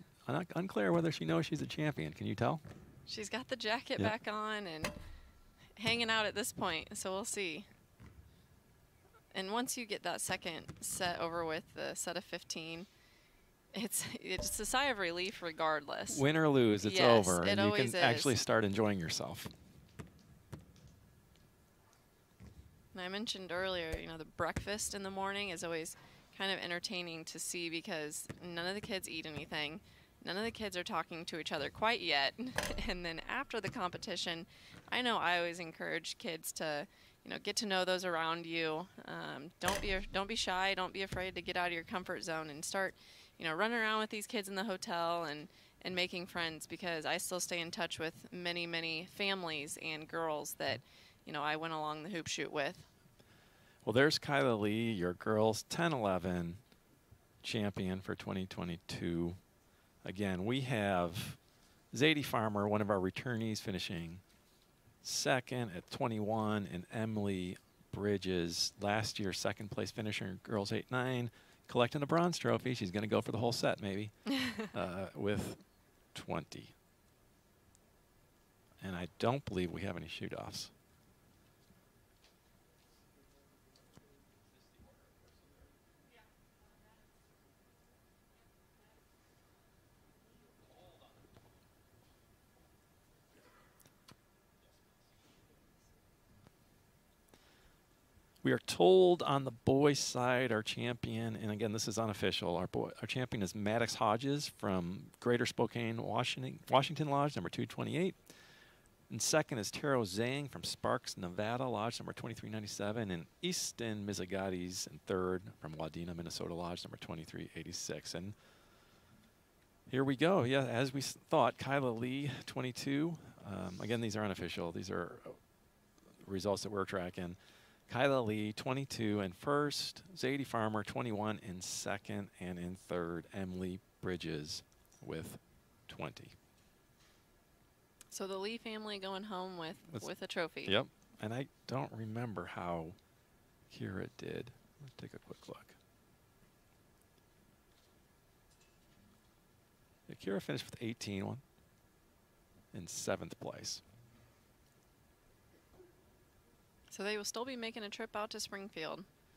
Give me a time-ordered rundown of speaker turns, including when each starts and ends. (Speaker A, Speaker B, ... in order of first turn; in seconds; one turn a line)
Speaker A: 0.2-2.6
Speaker B: 3.1-4.9
Speaker B: 5.8-7.7
Speaker B: 9.3-12.9
Speaker B: 13.7-16.2
Speaker A: 16.1-19.5
Speaker B: 16.8-18.4
Speaker B: 22.9-52.9
Speaker A: 53.8-56.6
Speaker A: 57.4-59.4
Speaker A: 60.0-61.4
Speaker A: 61.9-64.2
Speaker A: 65.0-76.8
Speaker B: 74.3-74.7
Speaker A: 78.8-80.7
Speaker A: 98.4-108.4
Speaker A: 109.1-118.4
Speaker A: 119.9-125.4
Speaker A: 126.2-136.4
Speaker B: 138.1-140.8
Speaker A: 140.7-143.0
Speaker A: 143.7-145.8
Speaker A: 150.1-151.4
Speaker A: 152.7-153.8
Speaker B: 156.9-159.1